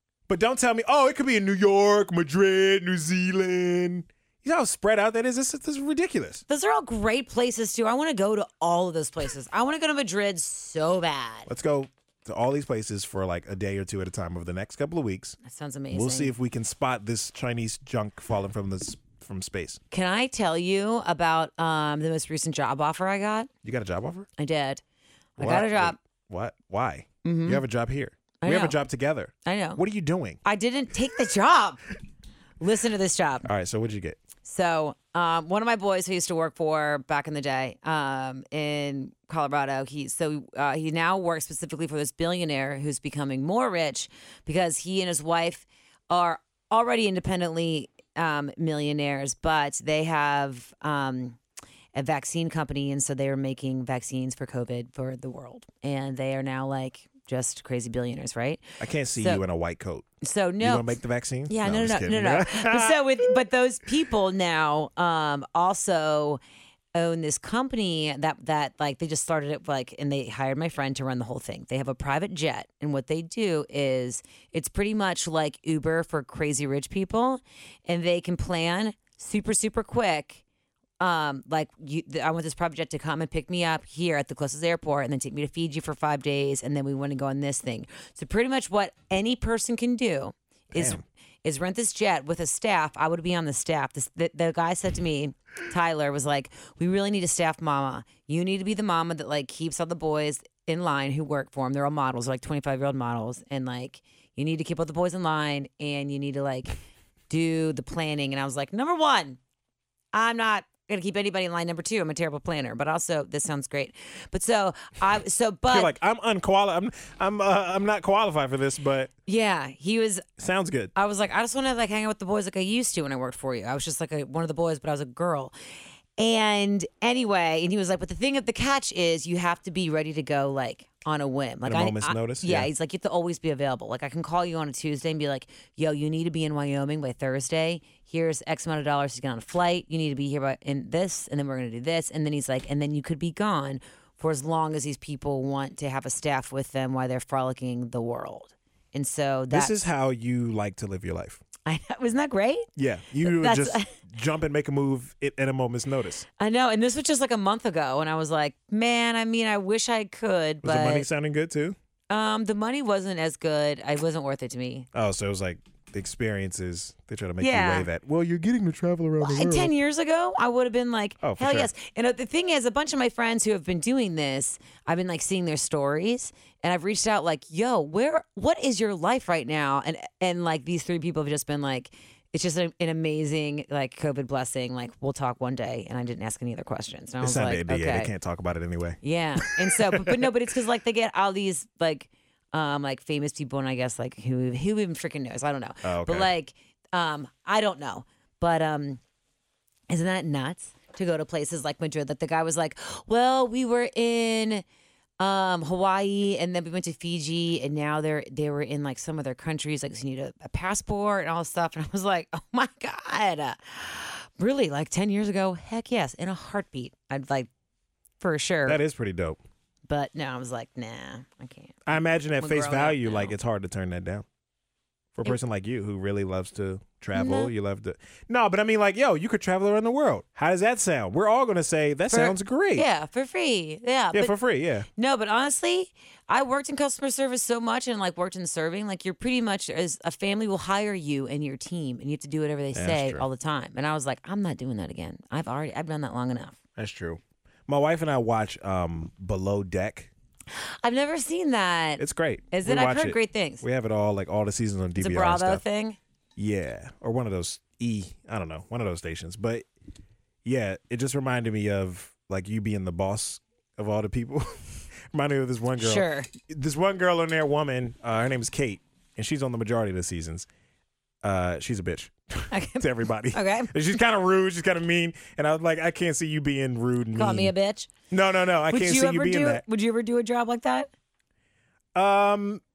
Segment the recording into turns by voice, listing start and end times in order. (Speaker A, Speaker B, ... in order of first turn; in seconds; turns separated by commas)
Speaker A: 0.3-6.4, Speaker B: 6.5-11.5, Speaker A: 11.5-15.4, Speaker B: 15.4-16.3, Speaker A: 15.9-19.8, Speaker B: 19.9-23.5, Speaker A: 23.6-24.3, Speaker B: 24.4-24.8, Speaker B: 25.4-26.0, Speaker A: 25.4-30.4, Speaker B: 27.2-27.6, Speaker B: 28.4-28.8, Speaker B: 29.4-29.8, Speaker B: 30.4-31.9, Speaker B: 32.6-33.5, Speaker A: 33.4-34.2, Speaker B: 34.4-51.4, Speaker B: 51.9-59.4, Speaker A: 58.8-60.0, Speaker B: 60.2-66.4, Speaker A: 60.6-63.4, Speaker B: 66.9-80.4, Speaker B: 81.0-106.8, Speaker A: 90.7-91.0, Speaker B: 107.3-109.4, Speaker B: 110.1-116.0, Speaker A: 115.7-119.1, Speaker B: 119.2-120.2, Speaker A: 120.4-120.9, Speaker B: 121.0-125.5, Speaker B: 126.2-149.8, Speaker A: 131.6-132.7, Speaker A: 149.5-151.4, Speaker B: 151.6-152.7, Speaker A: 152.8-156.2, Speaker B: 153.2-153.9, Speaker B: 156.4-161.1, Speaker A: 160.6-161.8, Speaker B: 162.1-164.9, Speaker A: 164.9-169.7, Speaker B: 167.4-167.9, Speaker B: 169.2-188.1, Speaker A: 171.2-171.7, Speaker A: 187.2-190.3, Speaker B: 189.0-199.0, Speaker A: 195.8-196.3, Speaker B: 199.9-204.6, Speaker B: 205.2-217.5, Speaker B: 218.2-218.8, Speaker A: 218.7-219.4, Speaker B: 219.9-221.8, Speaker A: 221.9-224.2, Speaker B: 222.4-223.4, Speaker A: 225.1-232.9, Speaker B: 227.1-227.5, Speaker B: 232.1-234.4, Speaker A: 234.1-234.9, Speaker B: 234.9-246.6, Speaker A: 242.7-243.2, Speaker A: 246.8-250.1, Speaker B: 250.5-253.6, Speaker A: 252.0-255.6, Speaker B: 255.0-256.0, Speaker A: 256.4-259.6, Speaker A: 260.4-270.5, Speaker B: 265.8-266.3, Speaker A: 271.2-277.5, Speaker B: 272.5-273.8, Speaker B: 277.1-277.9, Speaker A: 278.1-279.6, Speaker B: 278.7-280.9, Speaker A: 281.9-282.6